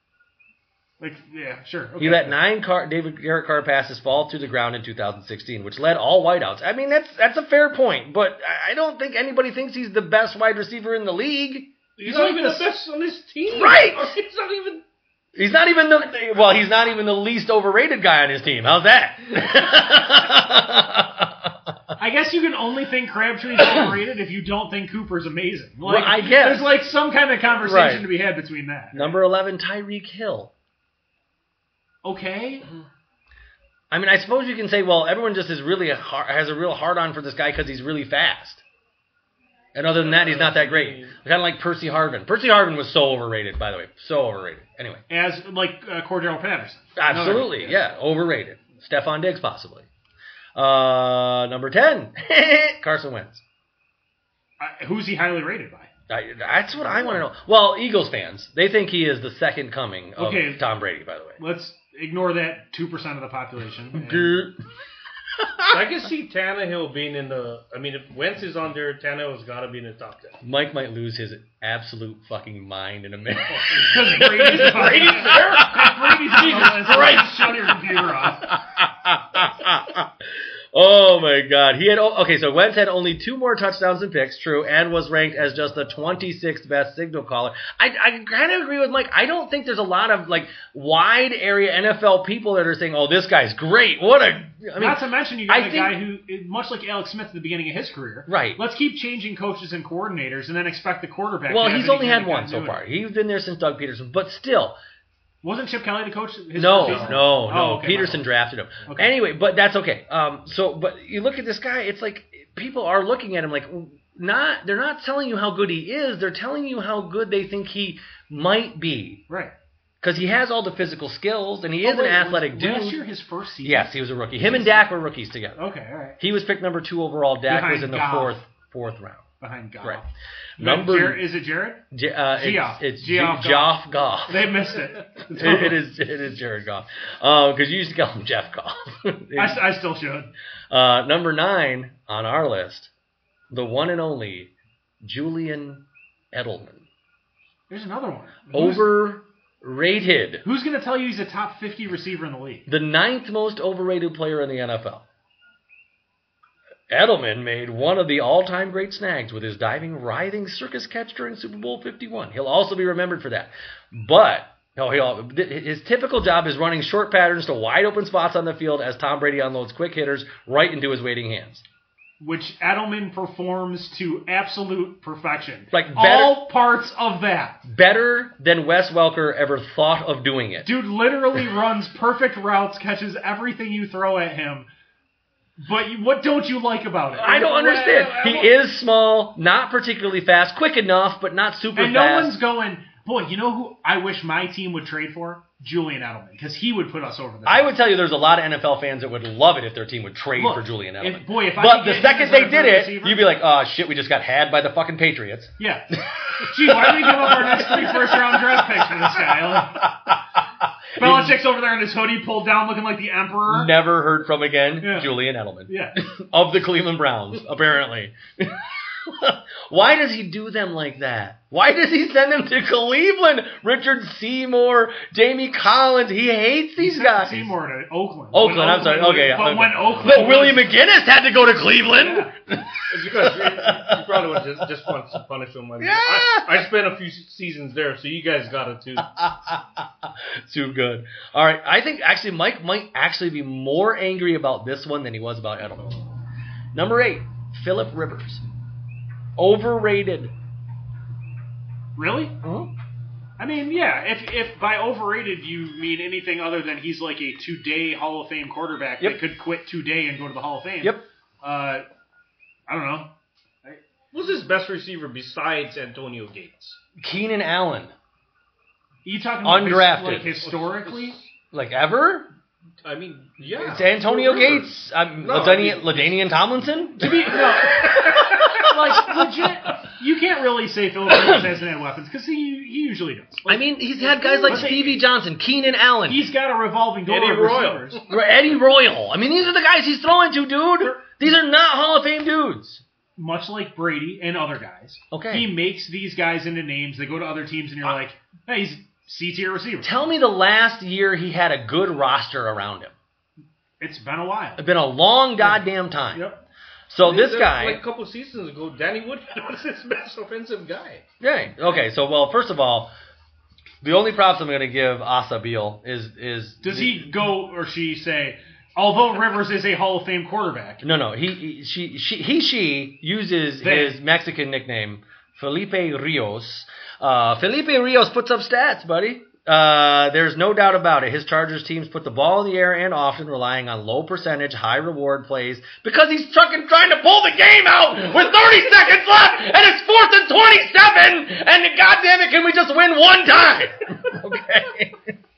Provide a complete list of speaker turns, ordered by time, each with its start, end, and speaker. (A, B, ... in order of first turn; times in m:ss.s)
0:01.0-0:02.4 A
0:02.0-0:11.7 B
0:12.0-0:14.8 C
0:12.0-0:12.7 A
0:13.5-0:14.1 B
0:15.4-0:21.5 B
0:22.0-0:29.2 A
0:25.8-0:26.8 B
0:27.6-0:28.1 B
0:28.9-0:30.5 B
0:32.0-0:32.6 A
0:33.9-0:38.6 B
0:39.7-0:45.0 B
0:40.0-0:41.2 C
0:45.1-0:47.8 A
0:47.0-0:49.9 B
0:50.5-0:53.4 B
0:54.6-0:55.9 A
0:56.1-1:01.4 B
1:00.2-1:00.6 A
1:01.4-1:04.4 A
1:03.9-1:04.6 B
1:05.4-1:05.7 B
1:05.7-1:10.4 C
1:10.4-1:20.1 B
1:13.8-1:18.5 A
1:14.6-1:15.7 C
1:16.5-1:17.3 C
1:20.7-1:36.0 B
1:34.8-1:42.8 A
1:38.3-1:38.6 B
1:41.5-1:44.8 B
1:45.4-1:48.2 A
1:46.5-1:59.2 B
1:46.8-1:47.2 C
1:48.8-1:49.1 A
2:00.0-2:03.0 B
2:01.8-2:04.8 A
2:03.6-2:05.6 B
2:05.6-2:06.2 A
2:06.2-2:09.3 B
2:07.5-2:08.4 A
2:09.4-2:11.8 A
2:10.6-2:11.2 B
2:11.9-2:14.6 B
2:12.4-2:15.8 A
2:15.3-2:19.7 B
2:19.3-2:20.3 A
2:20.7-2:22.9 B
2:23.5-2:26.8 B
2:27.7-2:28.8 A
2:28.5-2:30.4 B
2:30.4-2:32.7 A
2:32.7-2:35.0 B
2:36.9-2:51.6 B
2:52.2-2:57.6 A
2:55.7-2:56.4 B
2:57.6-3:00.7 B
3:00.6-3:04.7 A
3:05.6-3:08.5 A
3:07.1-3:12.4 B
3:11.7-3:17.7 A
3:17.4-3:30.2 B
3:20.4-3:23.2 A
3:25.6-3:29.9 A
3:31.0-3:31.4 B
3:31.0-3:33.7 A
3:33.5-3:47.5 B
3:34.8-3:36.0 A
3:46.8-3:50.7 A
3:48.3-3:54.4 B
3:52.0-3:52.3 A
3:52.9-3:59.1 C
3:55.8-3:56.6 B
3:59.1-4:06.0 B
4:06.7-4:08.4 B
4:09.4-4:10.3 B
4:12.0-4:12.3 A
4:12.4-4:12.7 B
4:13.4-4:21.8 A
4:22.7-4:23.1 A
4:24.1-4:26.8 C
4:27.0-4:27.9 B
4:29.0-4:31.2 A
4:29.4-4:30.4 B
4:30.4-4:31.3 C
4:31.5-4:32.3 B
4:32.8-4:36.4 C
4:33.6-4:39.2 B
4:37.0-4:45.0 A
4:37.6-4:38.4 C
4:41.1-4:41.5 B
4:43.5-4:46.2 B
4:44.3-4:44.8 C
4:46.1-4:48.0 A
4:47.1-4:48.0 C
4:48.1-4:52.8 B
4:53.2-4:59.9 A
4:55.1-4:55.5 B
4:59.8-5:02.9 B
5:03.8-5:04.6 A
5:04.6-5:06.2 B
5:05.4-5:06.4 A
5:06.9-5:07.8 B
5:07.0-5:11.0 C
5:11.2-5:12.9 B
5:13.8-5:17.1 B
5:16.6-5:20.8 A
5:20.8-5:45.1 B
5:23.6-5:24.0 A